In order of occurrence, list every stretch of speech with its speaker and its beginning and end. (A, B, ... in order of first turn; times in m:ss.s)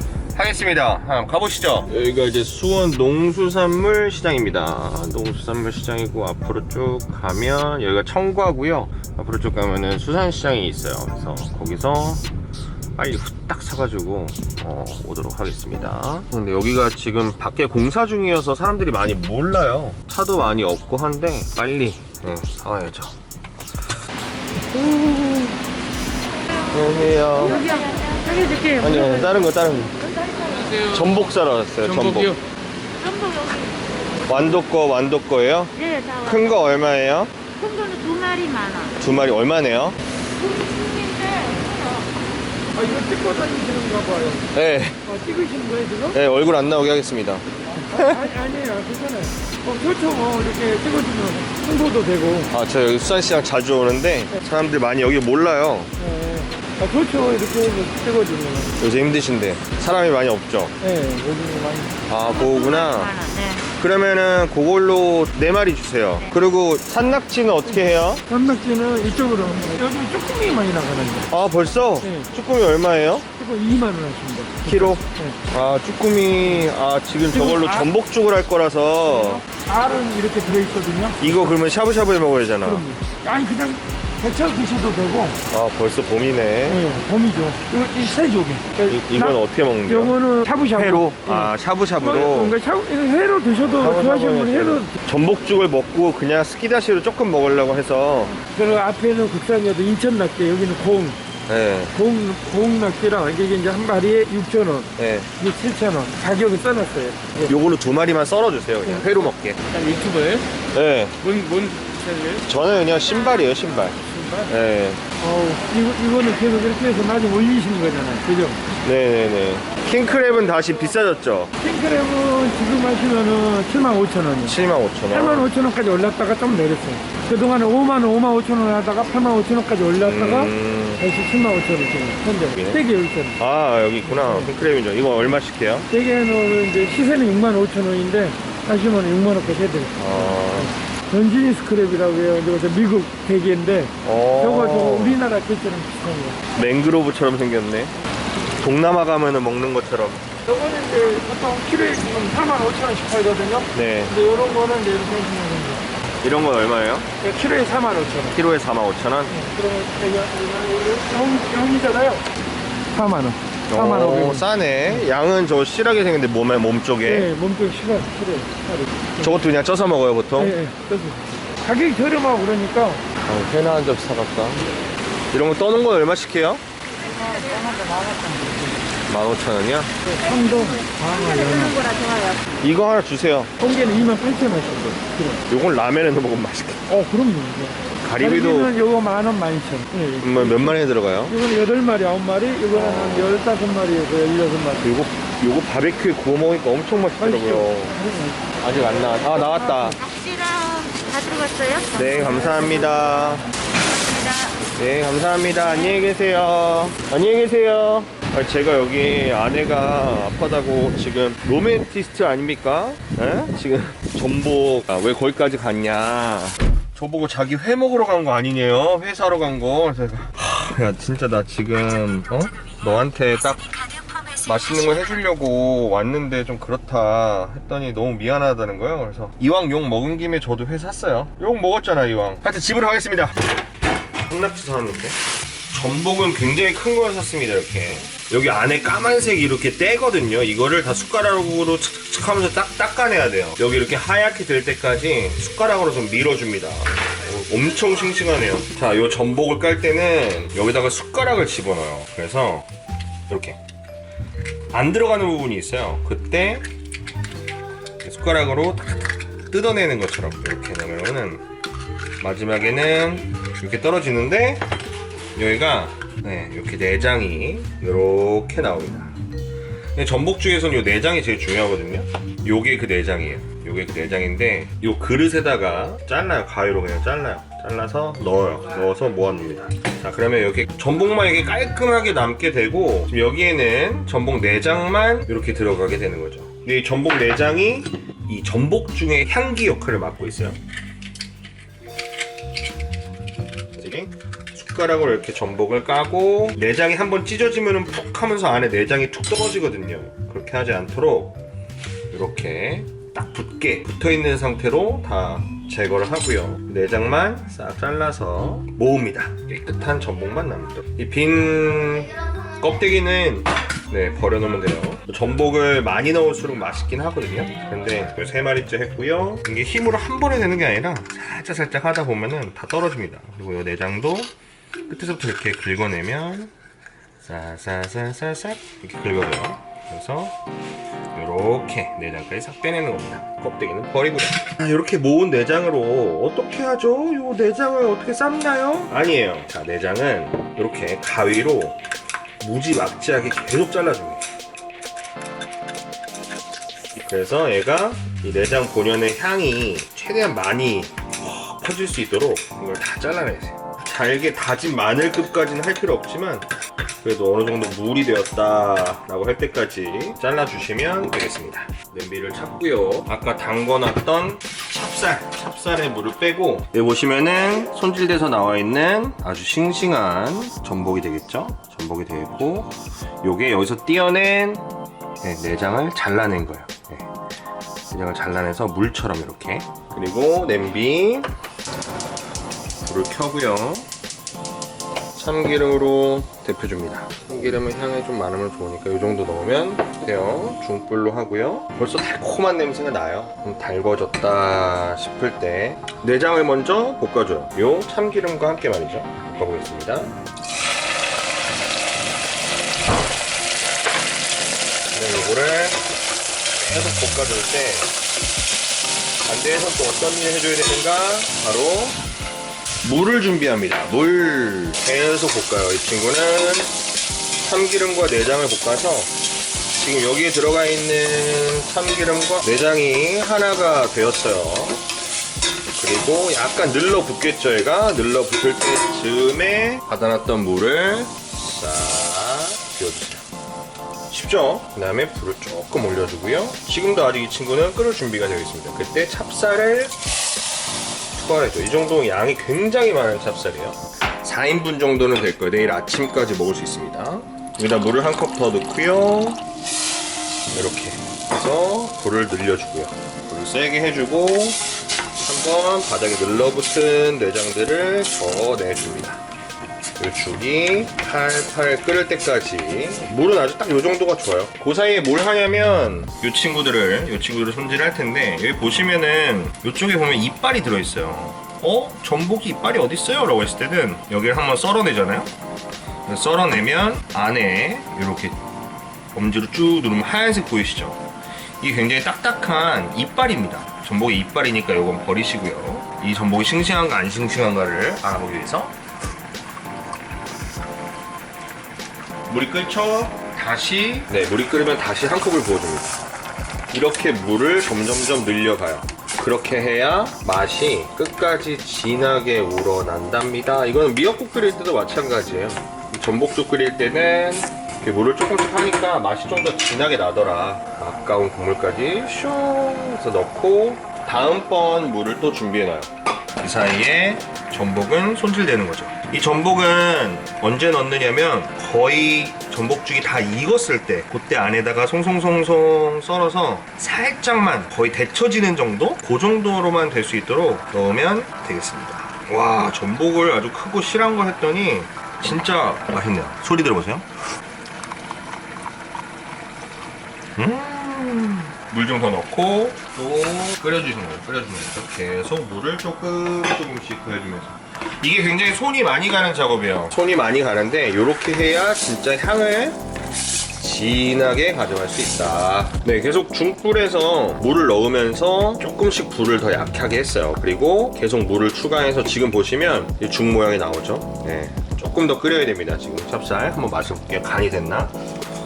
0:00.3-0:12.3 A
0:13.0-0:23.2 A
0:24.7-0:25.6 A
0:26.7-0:27.8 A
0:27.5-0:28.9 B
0:28.8-0:32.4 A
0:33.0-0:33.8 B
0:34.3-0:37.4 A
0:35.8-0:36.6 B
0:37.6-0:39.0 B
0:39.0-0:40.0 A
0:41.2-0:41.5 B
0:42.7-0:44.5 C
0:44.5-0:45.0 A
0:45.0-0:46.2 C
0:46.1-0:48.3 A
0:47.8-0:52.5 C
0:52.5-0:55.9 A
0:56.0-0:58.7 C
0:58.8-1:00.8 A
1:00.8-1:02.0 C
1:02.1-1:03.2 A
1:02.3-1:03.7 B
1:03.7-1:08.2 A
1:07.7-1:11.3 C
1:11.3-1:13.3 A
1:12.0-1:12.3 C
1:13.4-1:15.4 C
1:14.6-1:19.4 A
1:17.3-1:17.9 C
1:19.1-1:21.6 C
1:21.2-1:22.9 A
1:22.6-1:25.4 C
1:25.5-1:26.9 A
1:26.7-1:35.0 C
1:28.9-1:32.6 A
1:33.6-1:38.4 A
1:38.3-1:41.2 C
1:41.5-1:42.0 A
1:41.9-1:47.5 C
1:45.0-1:45.3 A
1:47.5-1:49.6 A
1:48.8-1:49.1 C
1:49.7-1:50.5 C
1:50.7-1:51.2 A
1:51.2-1:52.4 C
1:52.4-1:55.0 A
1:54.0-1:54.5 C
1:55.2-1:58.6 C
1:58.8-2:01.5 A
2:01.6-2:13.4 C
2:04.4-2:05.5 A
2:10.0-2:11.0 A
2:12.5-2:12.9 A
2:13.4-2:15.9 A
2:14.0-2:14.5 C
2:15.9-2:26.5 C
2:20.0-2:20.7 A
2:24.0-2:25.2 A
2:26.5-2:28.0 A
2:28.6-2:30.3 A
2:30.4-2:35.9 C
2:33.7-2:34.2 A
2:36.2-2:37.1 A
2:37.2-2:38.4 C
2:38.3-2:39.4 A
2:39.3-2:42.3 C
2:42.9-2:45.0 C
2:43.7-2:47.3 A
2:47.0-2:49.5 C
2:49.2-2:50.6 A
2:50.4-2:53.0 C
2:53.2-2:54.7 A
2:55.3-2:56.6 A
2:57.1-2:58.8 C
2:59.1-2:59.9 A
3:00.0-3:01.9 C
3:01.0-3:02.4 B
3:02.6-3:03.5 A
3:03.6-3:05.4 C
3:05.5-3:06.9 A
3:06.9-3:14.9 C
3:08.0-3:08.8 A
3:10.2-3:11.4 A
3:12.7-3:13.4 A
3:14.8-3:18.0 A
3:17.2-3:18.4 C
3:18.6-3:20.0 A
3:19.4-3:22.8 B
3:21.9-3:23.5 A
3:23.8-3:24.6 B
3:24.8-3:53.4 A
3:54.2-3:55.2 A
3:55.7-4:12.7 A
4:13.3-4:13.6 A
4:14.7-4:16.7 A
4:18.0-4:21.4 A
4:22.2-4:24.7 A
4:25.4-4:29.2 A
4:30.0-4:50.6 A
4:53.7-5:01.4 A
5:02.1-5:24.3 A
5:24.9-5:26.5 A
5:27.2-5:30.4 A
5:31.1-5:41.8 A
5:42.4-5:44.2 A
5:47.0-5:56.5 A
5:57.0-6:14.7 A
6:15.2-6:17.1 A
6:17.9-6:21.3 A
6:22.8-6:23.9 A
6:25.2-6:40.2 A
6:44.9-6:45.8 A
6:46.6-6:47.9 A
6:49.3-6:52.0 A
6:52.8-6:56.8 A
6:57.4-6:59.1 A
6:59.8-7:04.8 A
7:05.7-7:13.2 A
7:14.1-7:20.0 A
7:21.1-7:29.4 A
7:30.5-7:34.6 A
7:35.2-7:39.2 A
7:40.0-7:55.3 A
7:56.1-7:58.4 A
7:59.1-8:01.0 A
8:01.6-8:08.8 A
8:12.3-8:16.0 A
8:16.7-8:57.1 A
9:00.4-9:12.8 A
9:13.6-9:27.9 A